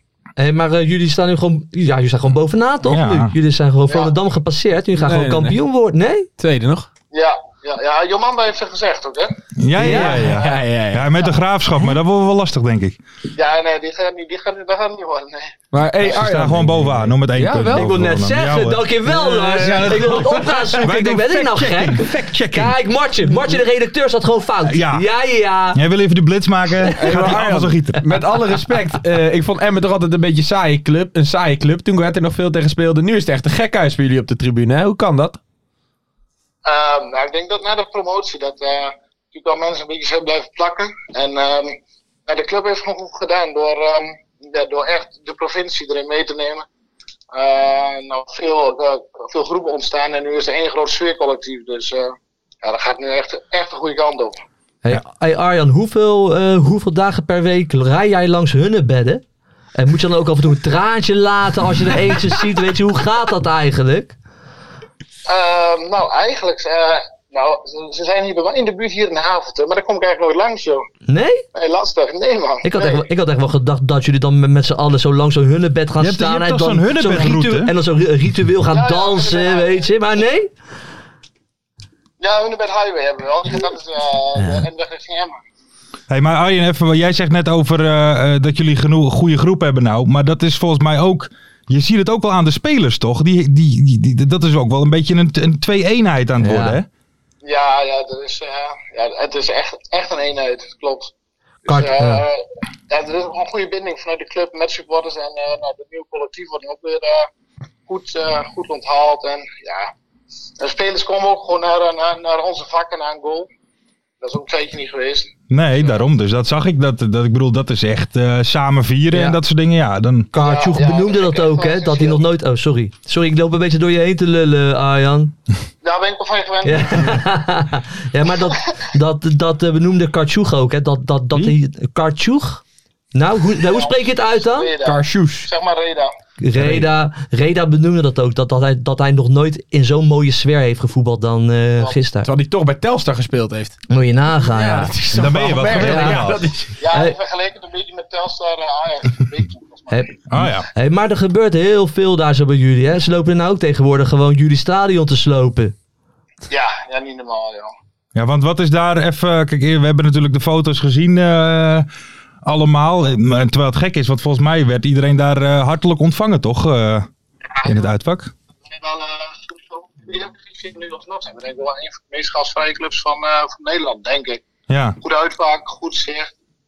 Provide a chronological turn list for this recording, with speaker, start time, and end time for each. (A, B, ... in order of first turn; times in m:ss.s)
0:00.4-0:06.3 A
0:02.8-0:03.3 B
0:05.0-0:05.6 C
0:06.4-0:06.9 C
0:07.1-0:09.4 D
0:09.6-0:13.0 B
0:09.8-0:11.2 C
0:09.8-0:10.3 A
0:13.4-0:15.5 D
0:15.7-0:17.9 C
0:16.0-0:18.9 B
0:17.7-0:25.8 A
0:19.1-0:20.8 C
0:19.6-0:22.8 B
0:24.6-0:25.1 B
0:25.7-0:28.0 B
0:27.0-0:35.4 C
0:36.6-0:41.8 D
0:42.3-0:46.7 D
0:47.3-0:54.4 D
0:54.8-0:59.2 A
0:59.8-1:04.2 A
1:05.3-1:10.8 D
1:11.1-1:11.4 A
1:11.5-1:13.0 D
1:12.6-1:20.5 A
1:16.0-1:17.7 B
1:18.7-1:19.9 D
1:22.2-1:25.4 D
1:24.4-1:24.6 A
1:26.1-1:36.9 B
1:36.4-1:36.8 A
1:37.4-1:41.1 D
1:41.7-1:42.2 A
1:41.7-1:47.3 D
1:47.9-1:49.9 D
1:50.6-1:53.5 D
1:54.2-1:55.3 D
1:55.5-2:00.3 B
2:00.3-2:05.3 A
2:00.4-2:02.2 D
2:05.8-2:07.3 D
2:06.6-2:12.6 A
2:13.1-2:14.7 A
2:13.6-2:16.1 D
2:14.8-2:15.5 C
2:16.4-2:22.3 A
2:22.2-2:23.8 C
2:23.9-2:24.9 A
2:24.4-2:26.7 C
2:25.1-2:26.5 B
2:25.7-2:26.2 A
2:26.8-2:30.1 D
2:26.9-2:27.2 A
2:29.9-2:30.2 A
2:30.3-2:30.7 B
2:30.7-2:35.8 A
2:36.5-2:37.7 D
2:38.2-2:41.9 B
2:42.4-2:47.1 B
2:47.6-2:47.9 D
2:47.6-2:48.3 B
2:48.7-2:54.4 D
2:54.7-2:55.0 B
2:55.0-2:56.3 D